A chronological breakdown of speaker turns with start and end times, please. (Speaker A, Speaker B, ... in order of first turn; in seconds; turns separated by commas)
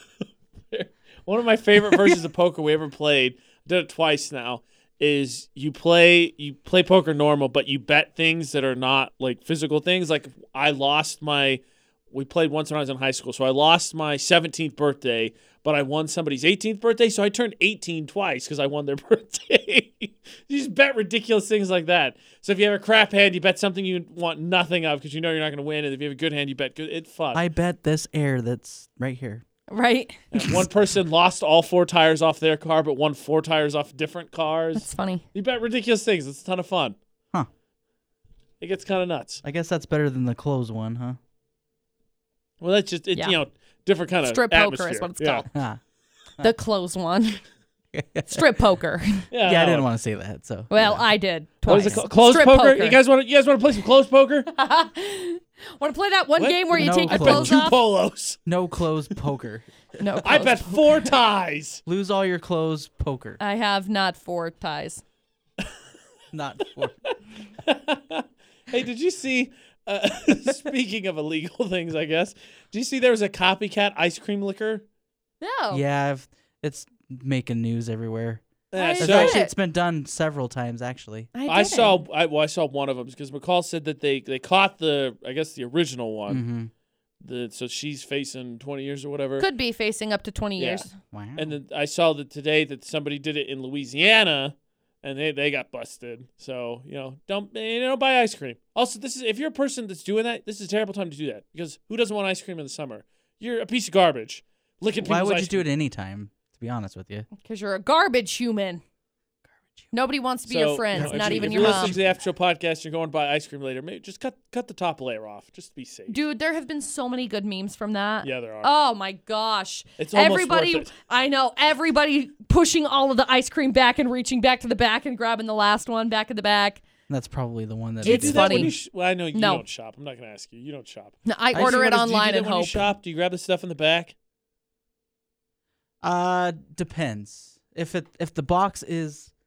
Speaker A: 0.7-27.4, Speaker B: 27.3-29.4, Speaker C: 29.7-30.1, Speaker A: 30.3-37.0, Speaker B: 30.4-30.7, Speaker C: 34.7-35.2, Speaker A: 38.6-39.4, Speaker B: 39.4-41.2, Speaker A: 42.6-45.4, Speaker C: 44.2-45.5, Speaker B: 45.5-45.8, Speaker C: 46.4-47.4, Speaker B: 47.9-48.5, Speaker C: 48.3-49.3, Speaker A: 49.3-49.9, Speaker B: 49.4-51.1, Speaker C: 50.7-53.0, Speaker B: 51.6-52.0, Speaker A: 51.7-54.5, Speaker C: 54.5-57.8, Speaker A: 56.4-58.4, Speaker B: 56.7-57.7, Speaker B: 58.4-59.7, Speaker C: 60.0-61.1, Speaker A: 60.2-61.8, Speaker B: 61.9-63.4, Speaker C: 63.4-65.0, Speaker B: 66.3-67.0, Speaker A: 67.1-74.8, Speaker C: 75.4-75.8, Speaker B: 75.7-78.4, Speaker A: 78.7-79.4, Speaker C: 78.8-79.5, Speaker B: 79.0-81.3, Speaker C: 81.3-82.0, Speaker A: 81.5-86.4, Speaker B: 86.3-86.7, Speaker A: 87.2-89.5, Speaker C: 89.4-90.9, Speaker A: 90.6-105.7, Speaker B: 91.1-91.5, Speaker B: 105.0-107.3, Speaker C: 107.4-108.8, Speaker B: 109.5-109.9, Speaker C: 109.9-112.0, Speaker A: 110.5-116.2, Speaker B: 110.9-112.2, Speaker C: 116.1-126.8, Speaker A: 118.2-118.7, Speaker A: 120.0-120.9, Speaker B: 127.1-128.7, Speaker A: 128.0-134.1, Speaker C: 128.0-128.8, Speaker C: 129.3-129.7, Speaker C: 131.2-132.9, Speaker B: 131.5-132.0, Speaker B: 136.0-139.3